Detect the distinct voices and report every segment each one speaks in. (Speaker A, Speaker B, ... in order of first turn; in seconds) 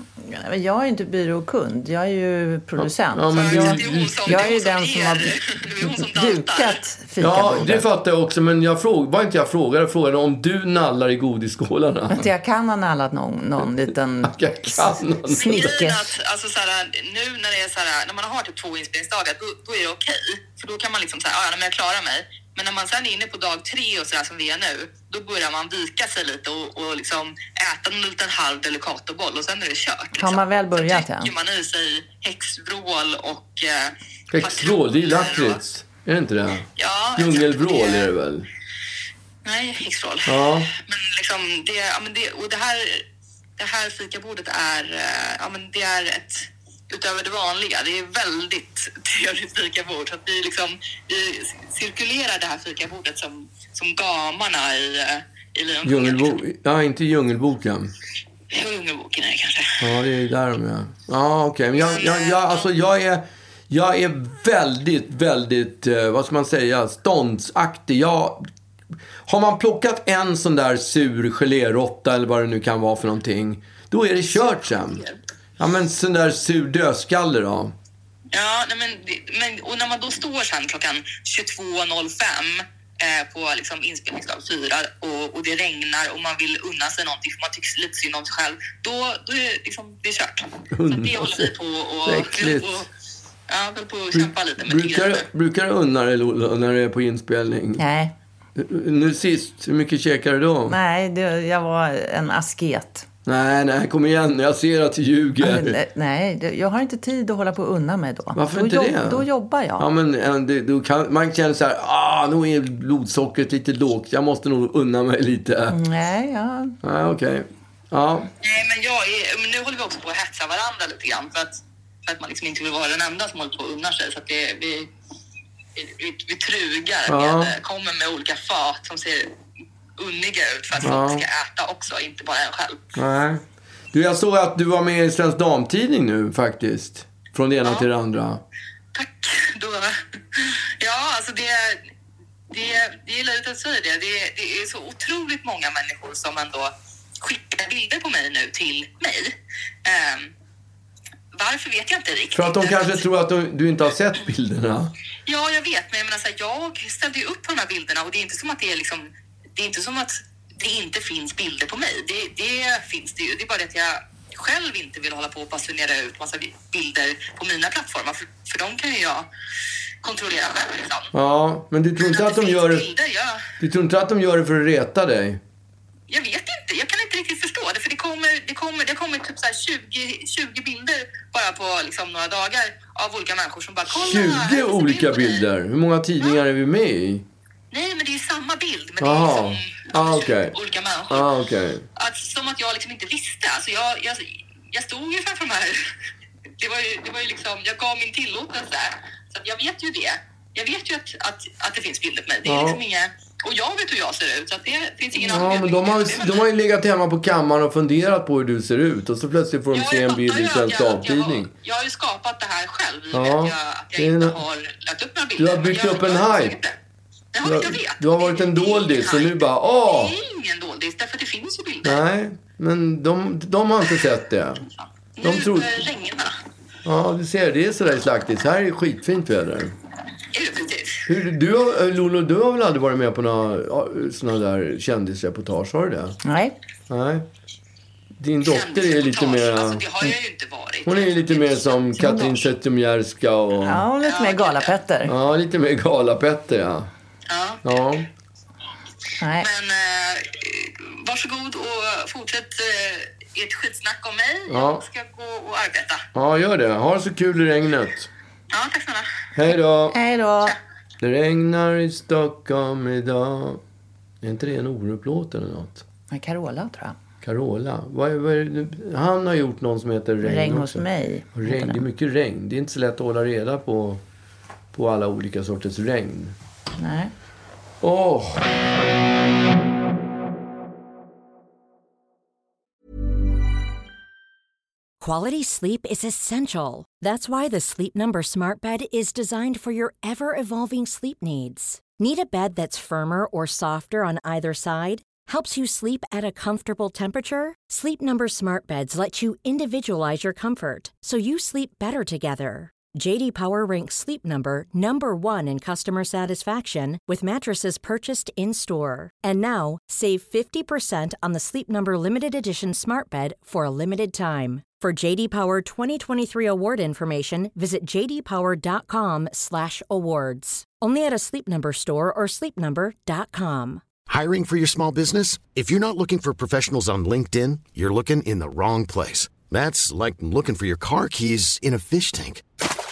Speaker A: 0.2-7.8, 12.1-16.1, 30.2-31.3, 97.8-98.1, 100.7-103.0, 105.4-109.9, 115.7-116.7, 236.2-236.5, 242.0-242.3, 243.6-245.1, 249.2-249.5, 259.9-260.6, 266.1-266.9, 270.2-271.8, 276.8-277.1
Speaker B: 2.8-4.5, 7.2-12.3, 14.2-15.6, 34.3-36.6, 37.2-38.5, 40.3-40.7, 55.8-57.9, 59.8-68.4, 69.2-75.0, 75.6-77.7, 90.7-91.5, 92.0-92.8, 94.1-97.8, 98.6-100.8, 103.2-105.8, 108.3-109.3, 109.8-115.8, 116.8-118.3, 127.1-127.5, 130.8-131.2, 132.9-138.4, 152.3-154.9, 171.1-172.8, 173.6-175.4, 183.9-187.2, 189.0-190.5, 191.1-191.8, 202.4-202.8, 205.2-211.5, 213.1-214.4, 215.4-216.5, 217.4-220.1, 221.8-224.6, 225.2-225.7, 226.8-229.7, 231.1-236.2, 236.9-237.2, 238.2-239.8, 240.8-243.8, 245.1-246.9, 247.6-248.1, 254.5-254.8, 256.1-258.1, 259.4-260.0, 261.0-263.6, 264.2-265.8, 267.2-270.8, 271.3-274.0, 274.7-276.3, 277.8-278.4
Speaker C: 3.3-6.8, 15.4-35.6, 36.8-38.1, 39.4-43.0, 43.6-56.4, 58.5-59.9, 61.8-62.7, 78.3-92.9, 93.5-95.2, 118.4-124.9, 125.8-129.3, 130.0-132.8, 138.9-141.8, 142.5-150.3, 151.3-153.0, 155.2-169.2, 170.0-171.1, 172.0-173.4, 176.1-185.4, 187.7-191.3, 192.0-195.8, 196.6-206.4, 209.7-216.8, 217.3-222.0, 224.8-226.3, 230.3-231.0, 238.4-242.4, 244.0-244.7, 247.3-247.6, 249.4-256.0, 258.5-259.1
Speaker D: 285.0-323.8
Speaker E: 324.1-332.4